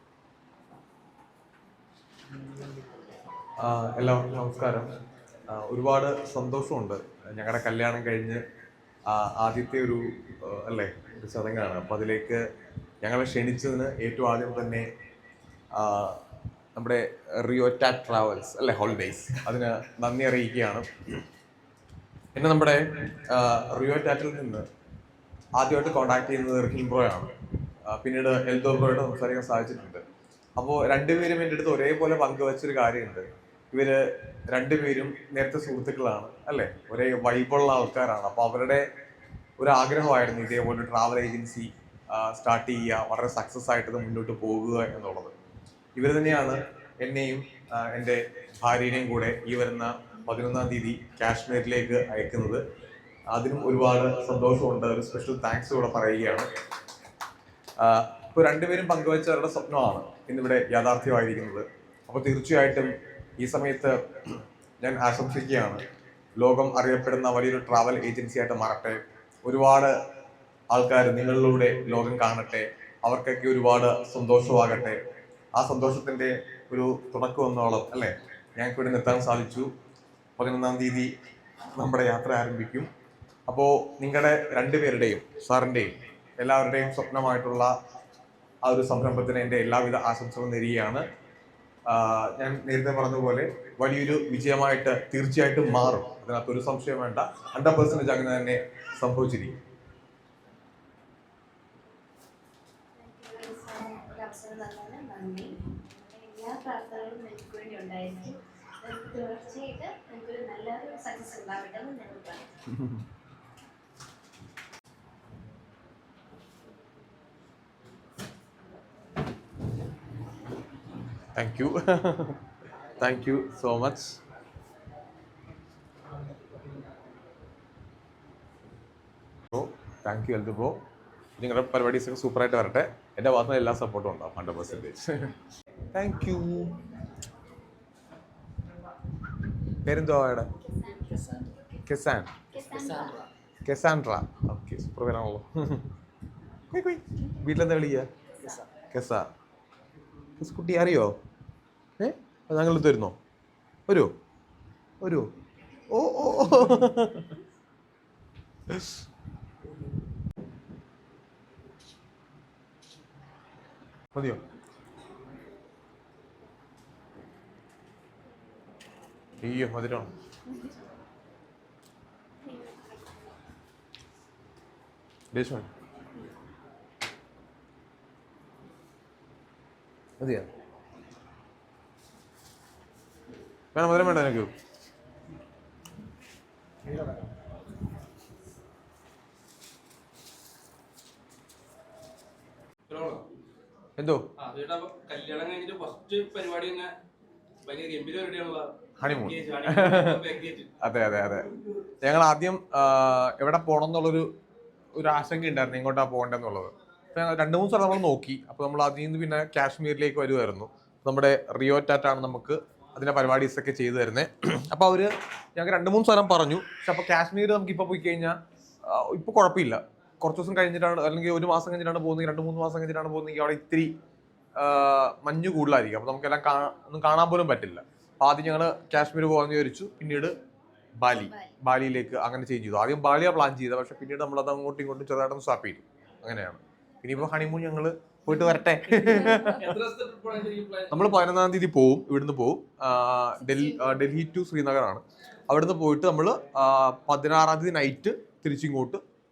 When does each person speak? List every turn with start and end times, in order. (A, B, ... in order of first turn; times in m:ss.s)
0:03.6-0:04.9 A
0:05.5-0:08.4 A
0:09.1-0:12.4 A
0:13.0-0:14.9 A
0:15.8-0:16.2 A
0:16.8-0:20.9 A
0:22.4-0:24.6 A
0:25.6-0:27.3 A
0:27.9-0:30.0 A
0:30.6-0:38.9 A
0:39.6-0:45.3 A
0:46.0-0:52.6 A
0:53.3-0:56.5 A
0:57.8-1:04.0 A
1:04.8-1:05.8 A
1:06.4-1:09.9 A
1:10.7-1:15.0 A
1:15.6-1:19.7 A
1:20.4-1:21.1 A
1:21.8-1:22.9 A
1:23.5-1:27.7 A
1:28.6-1:31.0 A
1:31.9-1:39.6 A
1:43.0-1:52.5 B
1:52.7-1:53.0 A
2:01.4-2:02.4 A
2:03.0-2:04.2 A
2:09.5-2:10.8 A
2:11.4-2:15.3 A
2:15.9-2:16.8 A
2:19.8-2:20.5 A
2:20.6-2:21.8 B
2:21.9-2:22.7 A
2:22.5-2:23.2 B
2:23.6-2:25.9 A
2:26.7-2:28.1 A
2:28.8-2:29.3 A
2:30.4-2:31.2 A
2:32.0-2:33.2 A
2:35.0-2:35.3 A
2:35.9-2:37.3 A
2:44.1-2:44.4 A
2:49.4-2:50.1 A
2:52.4-2:53.1 B
2:55.3-2:55.7 A
3:00.2-3:00.5 A
3:03.7-3:04.5 A
3:12.9-3:13.3 C
3:14.0-3:14.2 A
3:14.4-3:16.9 C
3:17.6-3:20.7 C
3:19.0-3:20.2 A
3:20.8-3:21.5 A
3:22.0-3:24.3 A
3:24.9-3:38.4 A
3:38.9-3:43.9 A
3:44.6-3:50.4 A
3:51.0-3:59.6 A
3:51.2-3:51.5 B
3:58.9-4:01.1 C
4:00.9-4:09.0 A